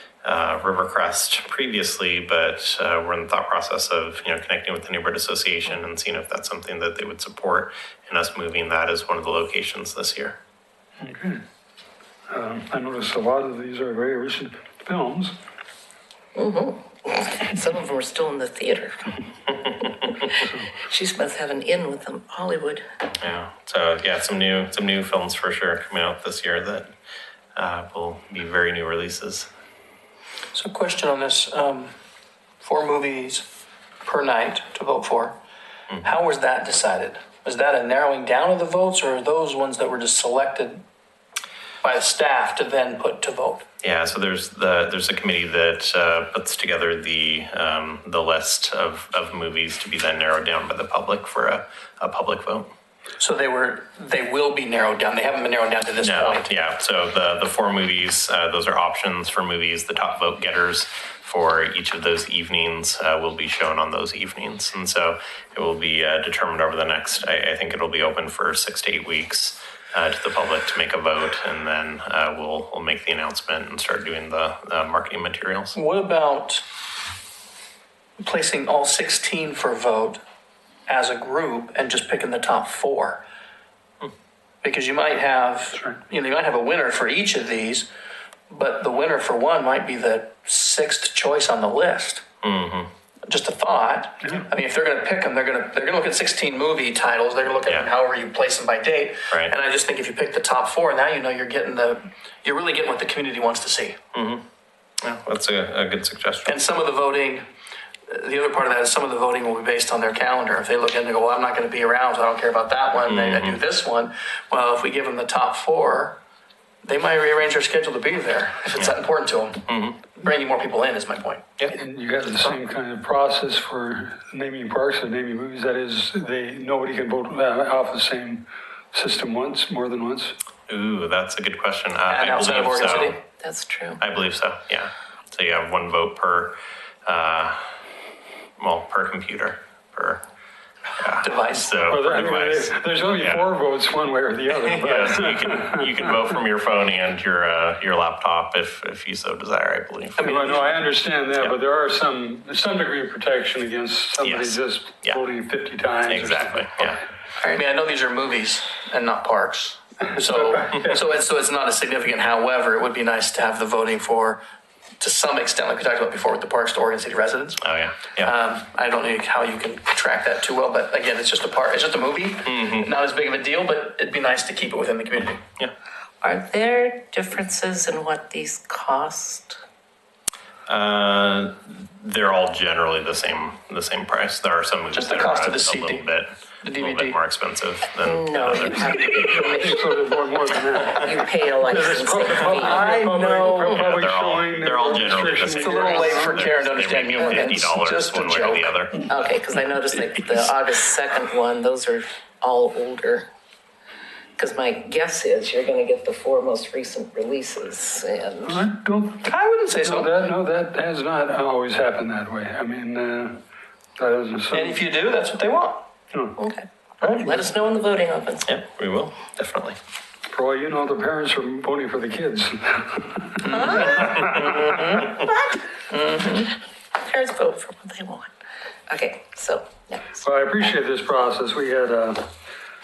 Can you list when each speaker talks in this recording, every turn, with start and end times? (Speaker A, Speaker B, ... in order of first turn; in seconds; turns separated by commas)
Speaker A: 0.2-10.4, Speaker B: 11.0-11.4, Speaker B: 12.3-15.3, Speaker C: 16.4-19.0, Speaker B: 20.4-20.7, Speaker C: 20.9-22.8, Speaker A: 23.2-26.9, Speaker A: 27.6-29.5, Speaker D: 30.5-31.9, Speaker D: 32.6-33.4, Speaker D: 34.0-35.4, Speaker D: 36.0-40.8, Speaker D: 41.8-43.6, Speaker A: 43.8-52.7, Speaker D: 53.2-56.5, Speaker A: 56.0-75.8, Speaker D: 75.7-76.6, Speaker D: 78.2-80.2, Speaker D: 80.9-83.2, Speaker D: 84.6-87.9, Speaker D: 88.5-92.2, Speaker A: 92.4-92.9, Speaker D: 93.3-104.0, Speaker A: 104.1-104.4, Speaker A: 105.0-106.6, Speaker D: 106.4-107.4, Speaker D: 108.1-116.2, Speaker A: 113.1-113.6, Speaker D: 116.8-121.5, Speaker A: 119.7-120.0, Speaker B: 121.7-130.3, Speaker A: 130.7-133.2, Speaker D: 132.1-133.2, Speaker C: 133.4-134.0, Speaker A: 134.0-137.6, Speaker A: 138.6-140.2, Speaker A: 141.0-143.5, Speaker D: 141.2-141.7, Speaker B: 141.9-146.1, Speaker A: 144.5-150.7, Speaker B: 150.2-157.0, Speaker A: 154.2-155.2, Speaker A: 156.0-157.0, Speaker D: 157.4-164.4, Speaker B: 160.2-161.0, Speaker D: 165.0-167.6, Speaker A: 167.6-168.3, Speaker D: 168.2-175.4, Speaker A: 172.4-172.9, Speaker C: 176.2-179.6, Speaker A: 180.7-189.1, Speaker D: 184.9-186.1, Speaker D: 186.6-187.2, Speaker C: 188.0-190.0, Speaker B: 188.9-196.4, Speaker C: 190.9-193.9, Speaker D: 192.6-193.2, Speaker A: 193.6-199.1, Speaker D: 195.5-198.7, Speaker C: 199.1-203.3, Speaker C: 204.4-208.6, Speaker B: 208.4-209.3, Speaker D: 209.2-210.1, Speaker B: 209.8-213.4, Speaker B: 214.0-214.8, Speaker D: 214.5-215.9, Speaker B: 216.1-216.4, Speaker C: 216.4-218.5, Speaker A: 218.4-219.8, Speaker B: 220.3-224.7, Speaker D: 223.4-225.1, Speaker C: 223.7-224.4, Speaker A: 224.2-224.5, Speaker D: 225.9-226.5, Speaker C: 227.0-228.3, Speaker C: 228.9-230.1, Speaker B: 230.2-232.3